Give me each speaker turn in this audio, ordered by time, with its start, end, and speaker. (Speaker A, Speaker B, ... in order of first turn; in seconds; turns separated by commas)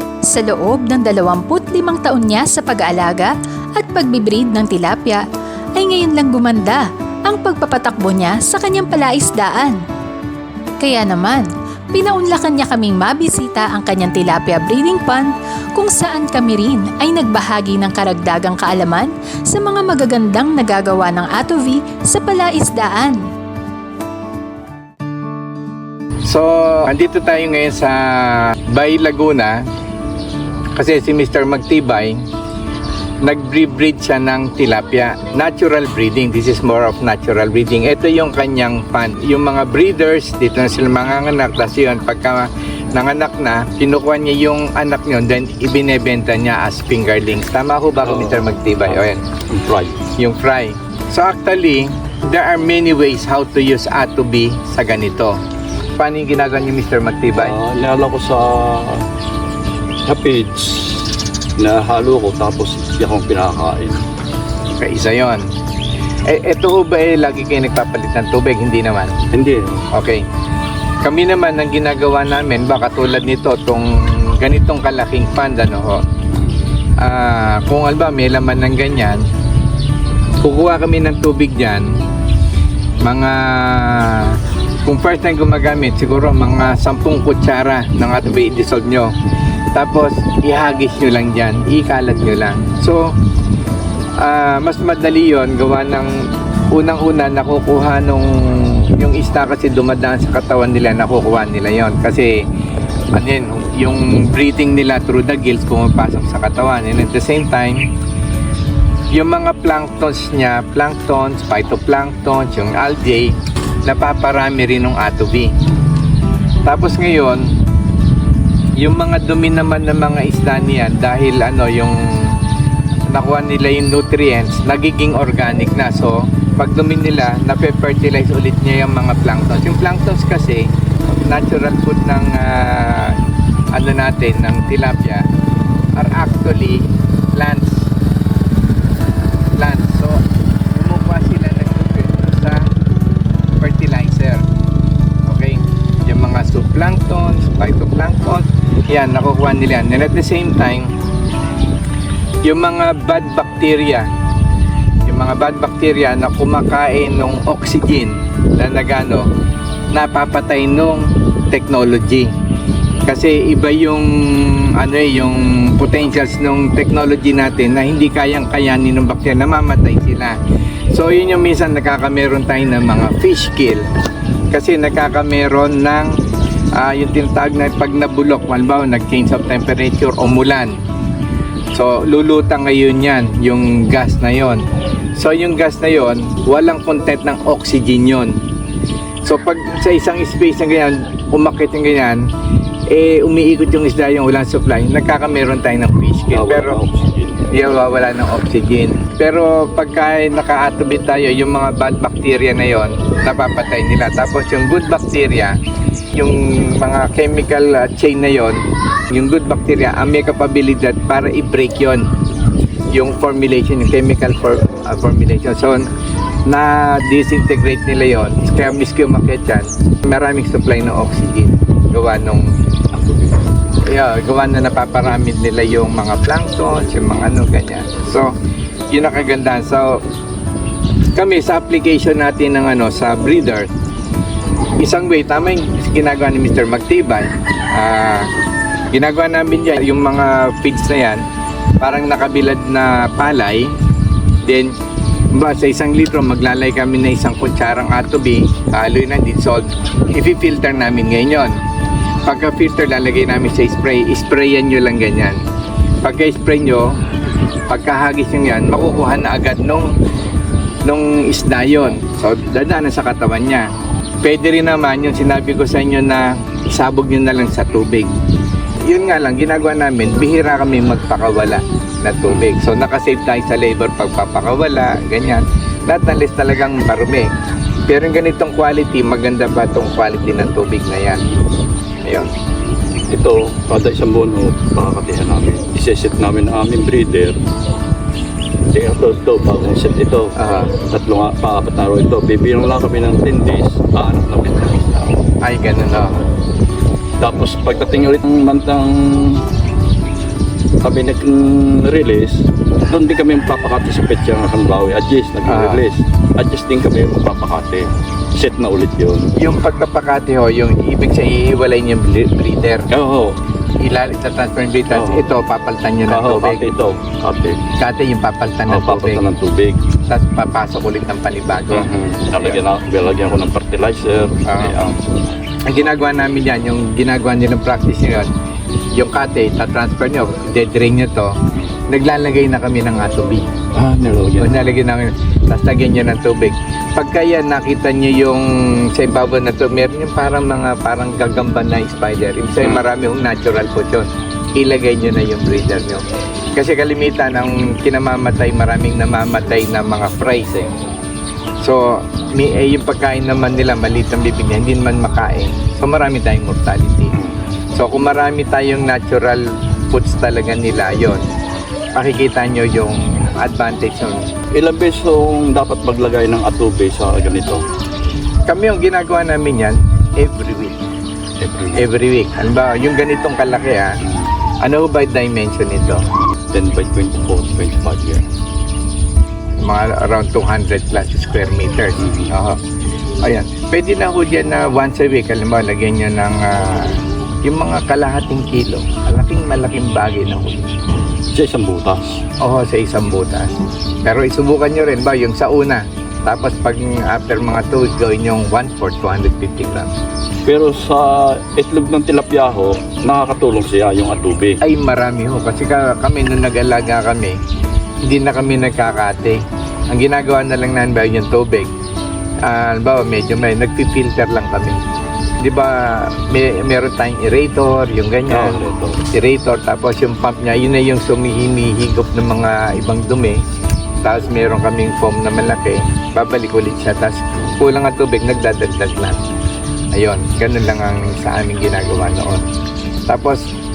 Speaker A: 0.3-5.2, Speaker A: 5.8-9.8, Speaker A: 10.8-23.2, Speaker B: 26.2-29.6, Speaker B: 30.8-32.2, Speaker B: 33.2-49.2, Speaker C: 48.0-49.0, Speaker C: 49.5-50.0, Speaker B: 50.2-55.4, Speaker B: 56.0-57.5, Speaker C: 57.3-59.0, Speaker C: 60.0-64.0, Speaker B: 64.8-65.4, Speaker B: 66.3-69.1, Speaker C: 69.3-69.8, Speaker B: 69.9-70.2, Speaker B: 71.0-76.0, Speaker B: 77.0-79.2, Speaker B: 80.4-82.0, Speaker B: 83.0-89.1, Speaker B: 89.7-93.1, Speaker B: 94.2-102.4, Speaker B: 103.1-107.9, Speaker B: 109.1-115.5, Speaker B: 116.6-117.5, Speaker B: 118.8-122.4, Speaker B: 123.1-133.2, Speaker B: 133.7-135.3, Speaker B: 135.9-137.9, Speaker B: 139.6-142.7, Speaker B: 143.6-144.4, Speaker B: 145.2-150.9, Speaker B: 152.4-154.1, Speaker B: 155.1-159.3, Speaker B: 159.9-162.3, Speaker B: 163.1-170.4, Speaker B: 170.9-173.8, Speaker B: 174.5-176.2, Speaker B: 176.8-180.8, Speaker B: 181.7-184.6, Speaker B: 185.2-188.4, Speaker B: 189.2-192.3, Speaker B: 192.9-196.8, Speaker C: 196.3-197.5, Speaker B: 197.5-205.6, Speaker B: 206.2-208.6, Speaker B: 209.1-212.1, Speaker B: 212.9-215.9, Speaker B: 216.5-222.5, Speaker B: 223.8-228.3, Speaker B: 228.9-230.0, Speaker B: 231.1-233.7, Speaker B: 234.8-238.3, Speaker B: 238.9-241.2, Speaker B: 241.8-243.7, Speaker B: 244.4-244.7, Speaker B: 245.3-251.6, Speaker B: 252.2-255.4, Speaker B: 256.0-257.0, Speaker B: 257.7-259.9, Speaker B: 260.8-263.7, Speaker B: 264.2-268.1, Speaker B: 268.9-277.3, Speaker B: 277.9-281.2, Speaker B: 282.0-282.3, Speaker C: 283.1-287.4, Speaker C: 288.7-295.2, Speaker B: 290.4-290.7, Speaker B: 295.4-296.2, Speaker C: 297.2-299.4, Speaker C: 300.8-309.3, Speaker B: 305.4-305.8, Speaker B: 309.4-312.9, Speaker C: 312.9-313.4, Speaker B: 313.8-316.6, Speaker C: 314.9-315.3, Speaker C: 316.1-317.6, Speaker B: 317.8-319.2, Speaker C: 318.7-319.8, Speaker B: 320.1-321.9, Speaker C: 321.7-325.0, Speaker B: 324.4-324.8, Speaker B: 325.6-328.3, Speaker B: 328.9-331.3, Speaker B: 331.9-333.5, Speaker C: 333.7-334.7, Speaker B: 334.4-346.0, Speaker B: 346.5-350.7, Speaker B: 351.6-357.1, Speaker B: 357.7-361.2, Speaker B: 361.9-364.3, Speaker C: 364.5-367.6, Speaker B: 368.5-370.8, Speaker C: 371.4-371.9, Speaker B: 371.7-374.0, Speaker B: 374.6-376.1, Speaker C: 376.5-378.2, Speaker B: 379.6-382.6, Speaker C: 382.0-382.3, Speaker B: 383.2-390.8, Speaker C: 391.3-392.2, Speaker B: 392.4-399.9, Speaker C: 400.4-404.6, Speaker B: 404.6-407.4, Speaker B: 408.0-411.7, Speaker B: 412.4-414.8, Speaker B: 415.4-423.4, Speaker C: 418.3-419.0, Speaker B: 424.0-429.2, Speaker B: 429.9-432.4, Speaker B: 433.1-433.4